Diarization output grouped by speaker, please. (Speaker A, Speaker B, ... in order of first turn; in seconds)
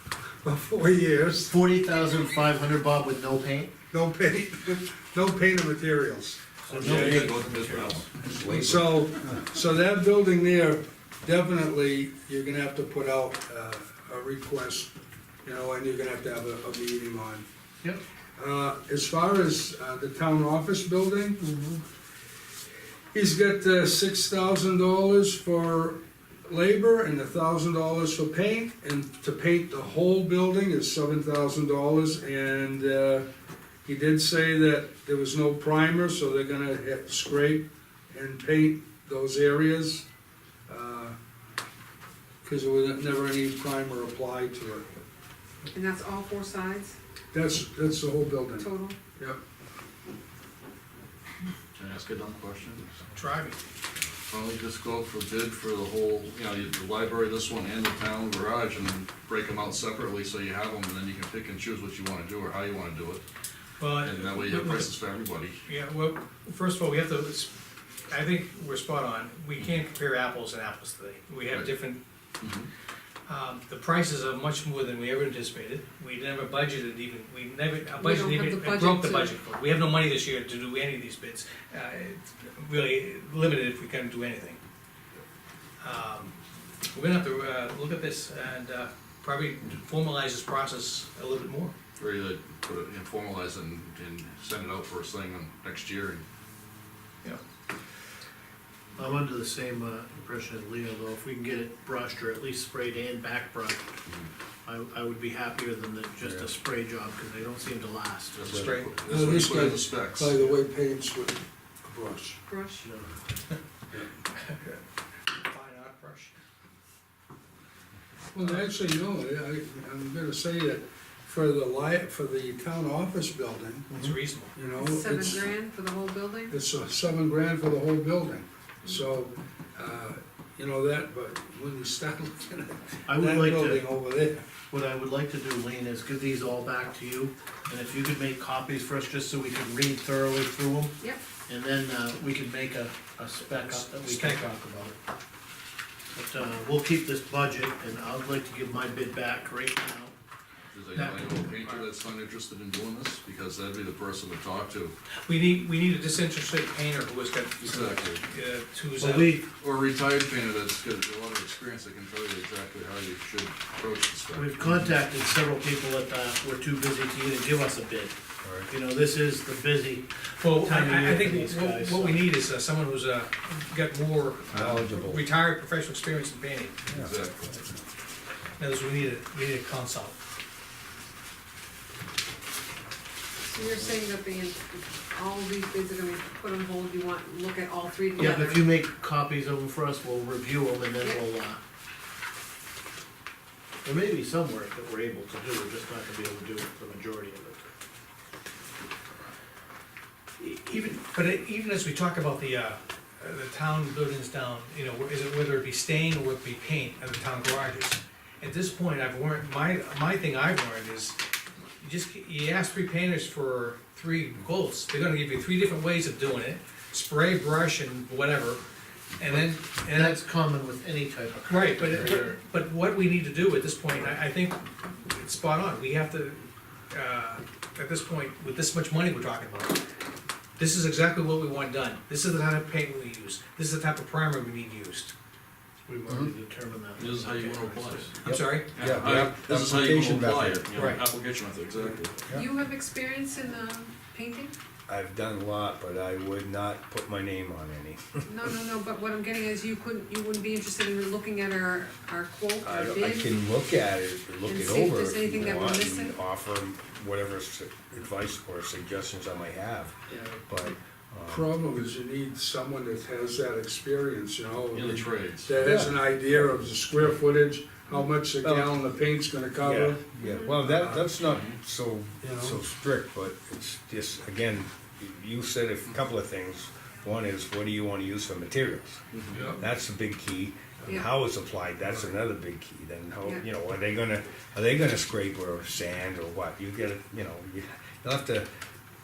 Speaker A: 0.4-1.6, 3.9-7.4, 8.4-14.9, 15.4-17.4, 18.4-21.8, 23.1-33.2, 33.8-40.0, 40.7-41.1, 42.4-44.9, 47.3-49.4, 109.1-112.4, 118.3-125.5, 126.5-134.4, 260.1-260.4, 261.3-270.0, 270.6-271.1, 272.2-272.6, 279.3-279.6
Speaker B: 1.5-3.7, 6.7-8.1, 99.0-103.9, 104.6-108.4, 112.8-113.2, 133.1-133.9, 134.7-140.9, 141.5-144.9, 146.1-150.1, 150.9-151.4, 158.9-159.5, 164.3-172.3, 188.2-191.6, 193.8-197.7, 219.8-222.4, 235.9-238.2
Speaker C: 6.7-8.1, 51.8-52.9, 54.3-63.2, 64.0-65.6, 72.4-72.7, 92.0-96.2, 108.3-110.3, 150.7-154.9, 157.6-158.2, 159.6-164.6, 176.9-177.8, 237.0-238.1, 238.7-242.2, 264.7-265.6, 271.3-271.6, 279.1-279.4
Speaker D: 8.2-9.4, 168.4-168.7, 174.5-175.2, 176.9-177.1, 236.1-236.3, 238.2-240.7, 244.9-248.3, 252.6-261.5, 265.6-266.1, 268.4-268.8, 269.6-288.5
Speaker E: 45.7-46.9, 48.6-49.0, 78.0-79.4, 112.5-112.9, 124.7-126.5, 183.4-188.8, 191.0-191.2, 242.3-244.5, 248.2-253.3, 254.4-256.2, 270.2-270.6
Speaker F: 53.1-53.6, 63.8-64.9, 65.6-67.5, 68.1-72.0, 73.3-84.6, 85.8-86.3, 86.9-91.7, 108.5-108.9, 114.3-114.8, 115.4-116.3, 123.9-124.5, 143.6-144.5, 155.2-159.4, 170.4-176.9, 178.6-180.2, 200.4-211.2, 211.8-218.6, 219.2-220.2, 221.4-229.8, 230.6-235.1, 238.2-238.7, 240.7-241.0